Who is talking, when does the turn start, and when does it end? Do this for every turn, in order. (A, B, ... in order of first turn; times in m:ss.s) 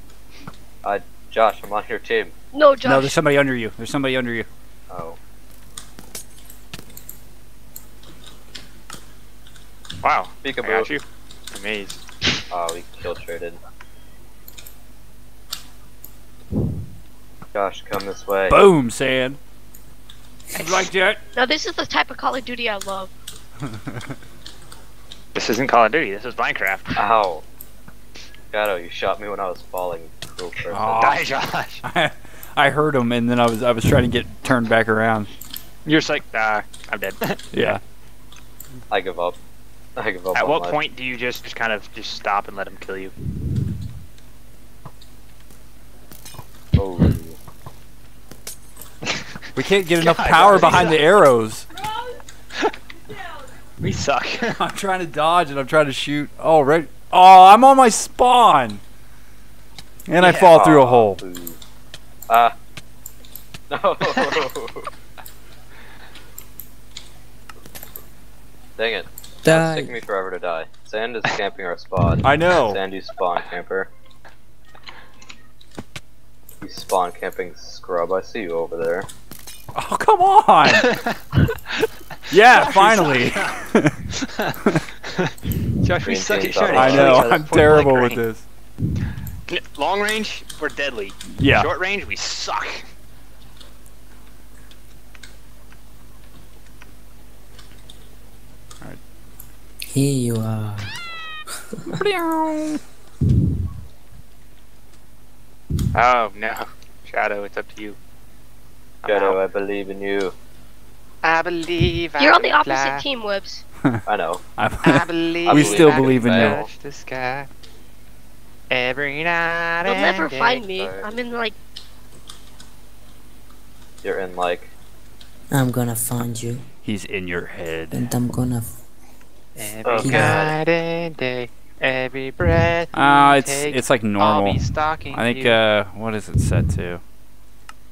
0:00.8-0:02.3 A
0:02.5-0:03.2 B
0:02.8-0:04.5 C
0:04.9-0:05.2 A
0:10.0-0:12.0 D
0:10.4-0:10.9 A
0:12.5-0:13.6 A
0:17.5-0:18.6 A
0:18.5-0:19.4 C
0:20.5-0:21.2 C
0:21.3-0:23.1 B
0:23.6-0:24.0 C
0:25.3-0:27.0 D
0:26.9-0:27.4 A
0:28.5-0:31.2 A
0:30.7-0:31.3 C
0:31.0-0:31.8 D
0:31.8-0:35.3 C
0:35.8-0:37.7 D
0:37.5-0:37.8 C
0:38.9-0:39.4 A
0:40.0-0:40.8 A
0:40.3-0:43.1 D
0:46.7-0:47.4 A
0:49.6-0:51.7 C
0:50.0-0:51.2 D
0:53.8-0:54.6 D
0:54.5-0:58.8 C
1:00.1-1:01.2 C
1:00.2-1:00.6 D
1:00.5-1:01.6 A
1:02.3-1:02.5 A
1:03.7-1:04.9 A
1:08.8-1:13.9 A
1:09.4-1:10.0 E
1:12.2-1:12.8 C
1:16.6-1:19.1 A
1:19.7-1:21.0 C
1:20.6-1:21.8 D
1:22.3-1:24.0 C
1:22.3-1:23.6 D
1:24.1-1:28.2 D
1:26.0-1:27.4 A
1:26.7-1:28.4 C
1:29.5-1:32.8 D
1:31.3-1:31.7 C
1:39.9-1:40.9 E
1:41.7-1:42.0 E
1:41.9-1:42.8 C
1:45.9-1:48.0 D
1:49.0-1:49.4 D
1:49.0-1:50.3 A
1:51.2-1:53.0 D
1:52.2-1:53.6 B
1:54.1-1:54.4 A
1:54.6-1:56.7 C
1:54.8-1:57.5 D
1:55.4-1:56.7 A
1:58.7-2:00.6 D
1:59.8-2:01.5 B
2:00.7-2:01.2 A
2:04.0-2:04.7 A
2:05.5-2:06.6 E
2:06.8-2:08.1 C
2:07.9-2:08.8 E
2:09.6-2:15.6 D
2:09.8-2:10.6 A
2:10.0-2:10.4 E
2:12.9-2:17.0 C